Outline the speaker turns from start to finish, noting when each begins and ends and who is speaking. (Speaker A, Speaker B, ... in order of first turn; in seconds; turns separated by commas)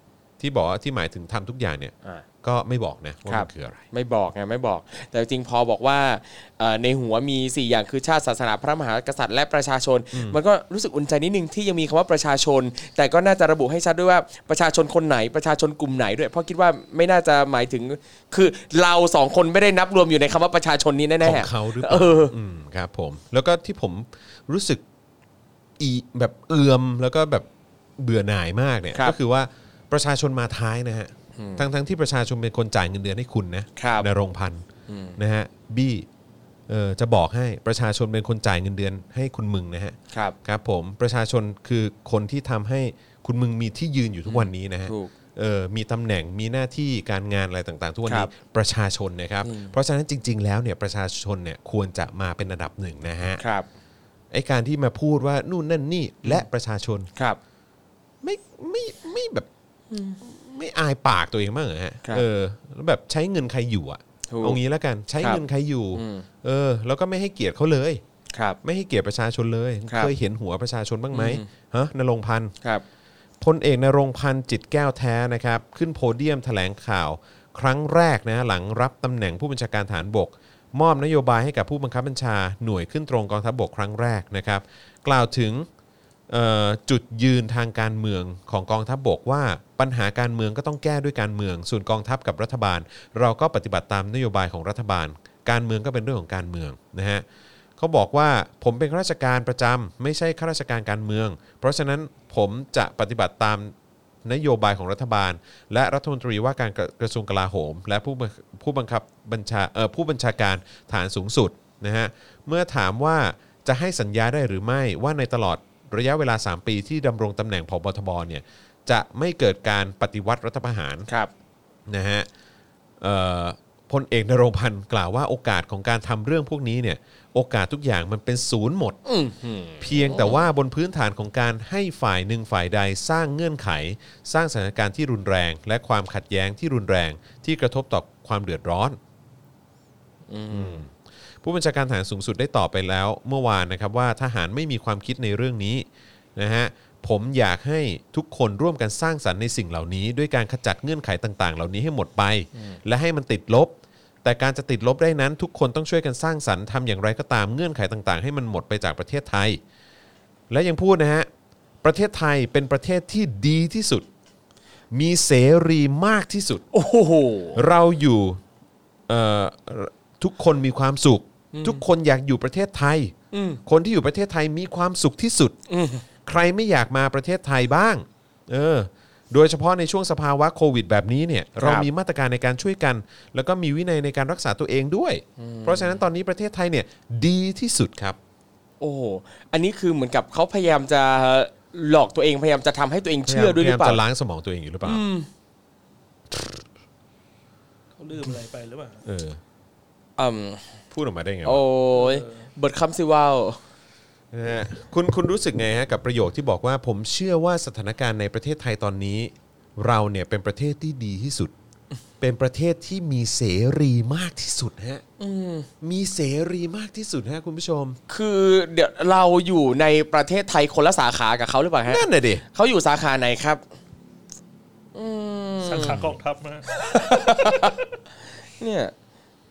Speaker A: 0.4-3.8, Speaker B: 3.3-22.3, Speaker A: 10.1-10.4, Speaker A: 21.2-24.8, Speaker A: 25.8-27.5, Speaker A: 28.0-34.6, Speaker B: 31.4-31.6, Speaker B: 33.8-34.1, Speaker B: 34.9-35.2, Speaker A: 35.2-36.1, Speaker A: 36.7-53.4, Speaker B: 44.2-45.1, Speaker B: 49.4-49.7, Speaker B: 53.4-53.6, Speaker A: 54.3-57.1, Speaker A: 58.2-59.5, Speaker B: 59.9-60.2, Speaker A: 60.2-68.0, Speaker B: 64.3-64.6, Speaker B: 65.9-66.2, Speaker A: 68.6-72.5, Speaker B: 71.1-71.5, Speaker A: 73.4-85.7, Speaker A: 86.3-97.2, Speaker A: 97.8-103.7, Speaker A: 104.2-121.1, Speaker A: 121.9-122.3, Speaker A: 123.0-129.0, Speaker B: 129.1-130.4, Speaker A: 129.8-139.0, Speaker B: 140.3-140.8, Speaker A: 140.5-140.9, Speaker A: 141.4-159.6, Speaker A: 160.5-161.3, Speaker A: 161.8-164.1, Speaker A: 164.9-166.6, Speaker B: 166.7-167.6, Speaker A: 167.5-168.4, Speaker A: 169.1-173.1, Speaker B: 171.5-171.8, Speaker B: 173.3-173.6, Speaker A: 173.7-175.6, Speaker B: 175.7-176.0, Speaker A: 176.2-188.2, Speaker B: 181.6-181.9, Speaker B: 185.4-186.0, Speaker B: 188.8-194.0, Speaker A: 193.2-195.0, Speaker B: 194.8-195.3, Speaker C: 198.0-199.0, Speaker A: 199.0-199.4, Speaker B: 200.2-200.6, Speaker A: 200.9-201.6, Speaker B: 201.4-203.6, Speaker C: 201.9-202.4, Speaker A: 204.3-211.5, Speaker A: 212.2-215.0, Speaker B: 215.2-215.7, Speaker A: 215.8-218.0, Speaker B: 218.1-223.6, Speaker A: 221.9-222.4, Speaker B: 224.9-226.1, Speaker C: 225.6-227.7, Speaker B: 226.7-227.8, Speaker B: 228.6-228.9